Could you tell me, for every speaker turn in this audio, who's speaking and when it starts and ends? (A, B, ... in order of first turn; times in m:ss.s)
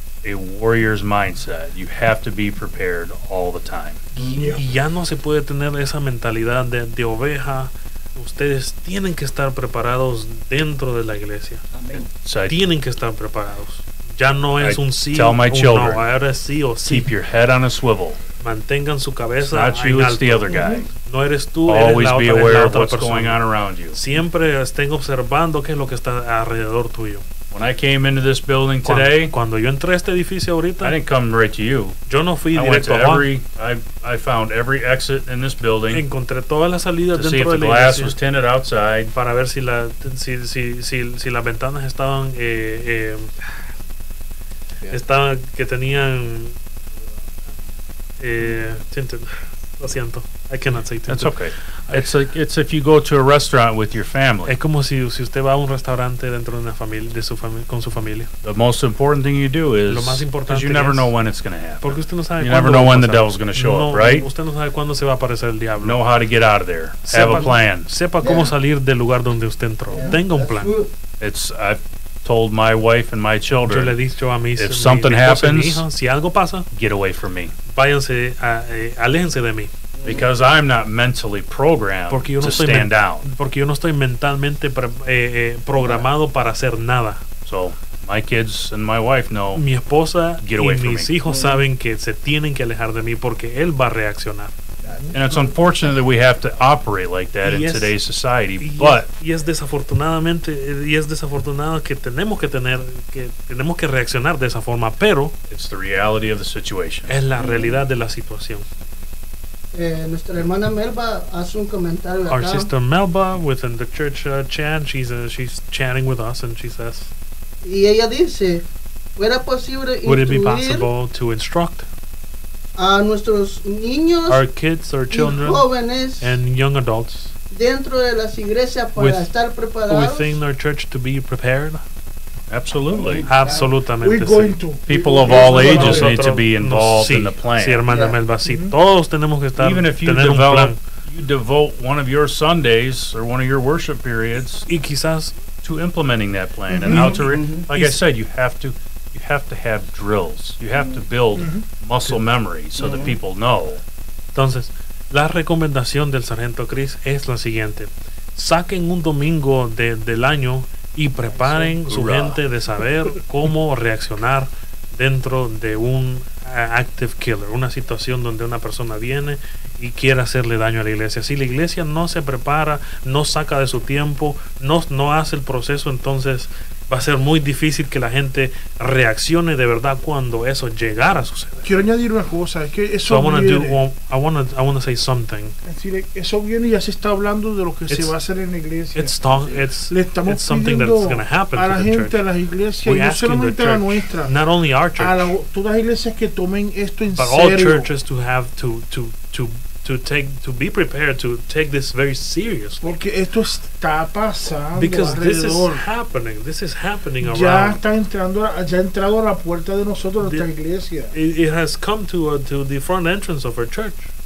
0:00.2-0:04.0 A
0:04.2-0:11.6 B
0:04.2-0:04.5 C
0:04.2-0:04.6 D
0:11.7-0:12.1 C
0:12.2-0:12.6 A
0:12.5-0:17.1 B
0:14.6-0:16.0 A
0:16.8-0:18.2 A
0:18.4-0:23.4 B
0:19.4-0:20.9 A
0:20.5-0:20.8 D
0:21.6-0:24.0 A
0:23.9-0:27.2 B
0:27.5-0:29.3 A
0:28.8-0:31.0 B
0:30.8-0:32.0 A
0:32.1-0:33.3 B
0:32.5-0:36.0 A
0:35.9-0:38.1 B
0:37.1-0:39.1 A
0:39.1-0:43.3 B
0:44.9-0:46.6 B
0:48.2-0:51.3 B
0:51.1-0:54.6 A
0:54.5-0:58.3 B
0:58.4-1:04.3 A
0:59.9-1:01.1 B
1:01.8-1:06.0 B
1:05.8-1:07.9 A
1:07.0-1:10.7 B
1:08.2-1:08.6 C
1:09.9-1:10.9 C
1:11.2-1:14.0 A
1:13.6-1:16.7 B
1:14.6-1:15.8 A
1:16.7-1:17.5 A
1:17.7-1:19.7 B
1:20.0-1:20.3 C
1:20.0-1:23.2 A
1:22.1-1:27.2 B
1:25.8-1:26.1 C
1:27.4-1:29.6 A
1:29.5-1:34.5 B
1:30.4-1:31.1 A
1:31.3-1:31.6 C
1:34.8-1:35.9 C
1:35.1-1:39.1 A
1:37.4-1:37.9 B
1:38.6-1:45.3 B
1:45.5-1:47.2 A
1:47.1-1:48.6 B
1:47.4-1:47.7 E
1:49.7-1:52.7 E
1:52.3-1:57.1 B
1:57.6-1:58.6 E
1:59.2-2:00.9 E
2:00.0-2:01.8 B
2:02.8-2:04.4 E
2:04.3-2:07.3 B
2:05.1-2:06.4 E
2:07.5-2:10.4 E
2:09.0-2:09.3 B
2:09.9-2:11.8 B
2:12.5-2:13.3 A
2:12.9-2:13.7 C
2:13.2-2:14.6 B
2:14.0-2:16.2 D
2:14.9-2:17.9 A
2:15.2-2:20.8 B
2:17.9-2:18.2 C
2:18.4-2:18.7 D
2:19.6-2:24.6 A
2:24.6-2:25.3 B
2:25.6-2:33.8 A
2:26.7-2:27.7 C
2:31.3-2:31.6 D
2:32.8-2:33.2 C
2:34.3-3:01.7 B
2:41.2-2:41.8 D
2:41.9-2:42.4 A
3:01.6-3:03.8 D
3:03.0-3:05.6 B
3:05.6-3:14.3 D
3:07.9-3:08.1 B
3:08.9-3:12.2 B
3:12.8-3:15.3 B
3:15.0-3:17.9 D
3:17.1-3:22.9 B
3:22.8-3:25.8 D
3:24.7-3:27.8 B
3:27.2-3:31.1 D
3:30.2-3:30.5 B
3:31.1-3:34.1 B